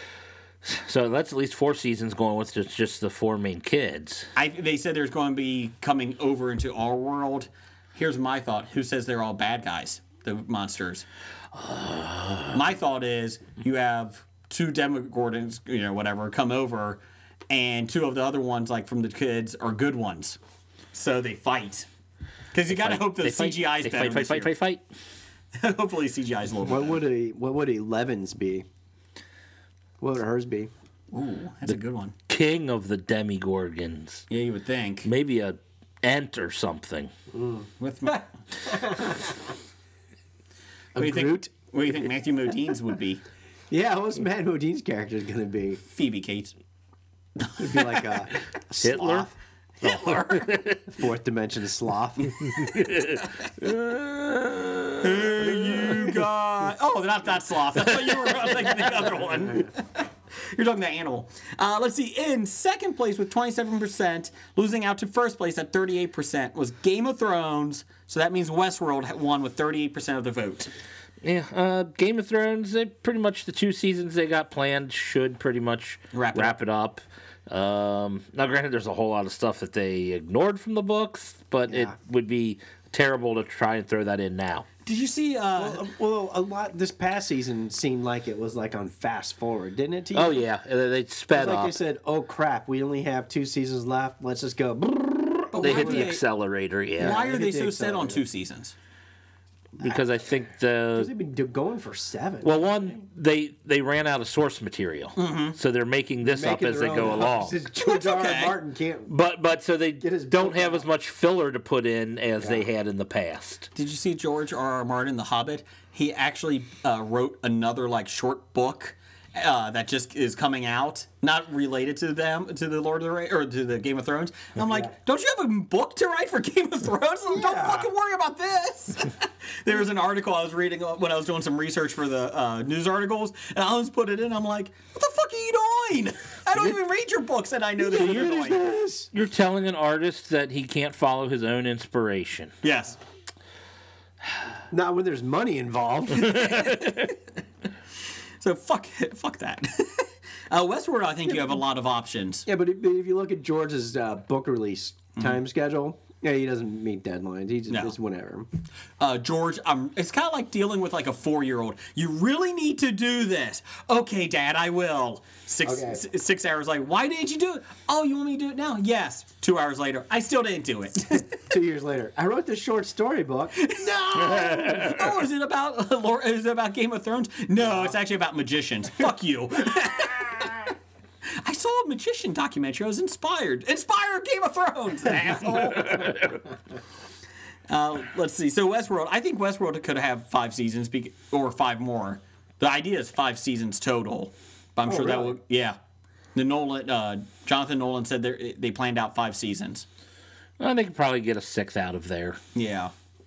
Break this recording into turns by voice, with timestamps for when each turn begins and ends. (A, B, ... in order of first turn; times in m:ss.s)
0:00.6-0:04.3 A
0:04.4-0:11.0 B
0:11.5-0:12.5 A
0:12.5-0:20.4 B
0:20.9-0:21.9 B
0:22.5-0:24.6 B
0:22.7-0:24.8 A
0:25.6-0:27.0 B
0:26.6-0:28.6 C
0:30.0-0:30.7 C
0:31.1-0:32.1 B
0:32.3-0:34.3 A
0:34.3-0:35.1 B
0:35.0-0:37.1 A
0:37.3-0:37.7 C
0:37.8-0:38.3 B
0:38.6-0:39.3 C
0:40.9-0:41.5 C
0:41.0-0:43.2 B
0:43.7-0:45.8 C
0:45.8-0:46.5 B
0:47.6-0:49.3 C
0:48.8-0:49.3 A
0:49.8-0:50.5 B
0:49.8-0:50.9 A
0:50.9-0:52.6 C
0:52.6-0:56.1 A
0:55.0-1:10.7 B
0:57.9-0:58.9 A
1:11.2-1:24.7 A
1:16.1-1:16.6 B
1:21.7-1:21.9 C
1:24.8-1:25.8 B
1:25.6-1:30.4 C
1:30.1-1:31.8 A
1:31.3-1:36.2 C
1:35.5-1:36.2 B
1:35.6-1:37.2 A
1:37.0-1:38.2 C
1:37.0-1:38.7 B
1:39.8-1:41.1 A
1:40.9-1:42.7 C
1:42.4-1:47.6 A
1:45.2-1:45.6 B
1:46.2-1:49.1 C
1:47.8-1:48.6 B
1:49.1-1:53.7 A
1:50.0-1:50.8 C
1:52.4-1:52.7 C
1:53.7-2:18.6 B
2:04.6-2:04.9 C
2:07.3-2:07.9 C
2:17.8-2:19.1 C
2:18.0-2:18.3 A
2:19.1-2:22.5 A
2:22.6-2:23.0 B
2:24.7-2:26.6 C
2:26.3-2:27.1 B
2:28.4-2:32.4 B
2:32.4-2:38.5 C
2:37.7-2:37.9 B
2:39.0-2:51.3 B
2:45.6-2:46.0 C
2:51.5-2:54.9 C
2:53.6-3:00.7 B
2:57.6-2:57.9 C
3:01.3-3:06.2 B
3:07.7-3:15.8 B
3:14.8-3:15.4 C
3:16.3-3:19.8 B
3:20.6-3:22.4 A
3:22.5-3:22.9 B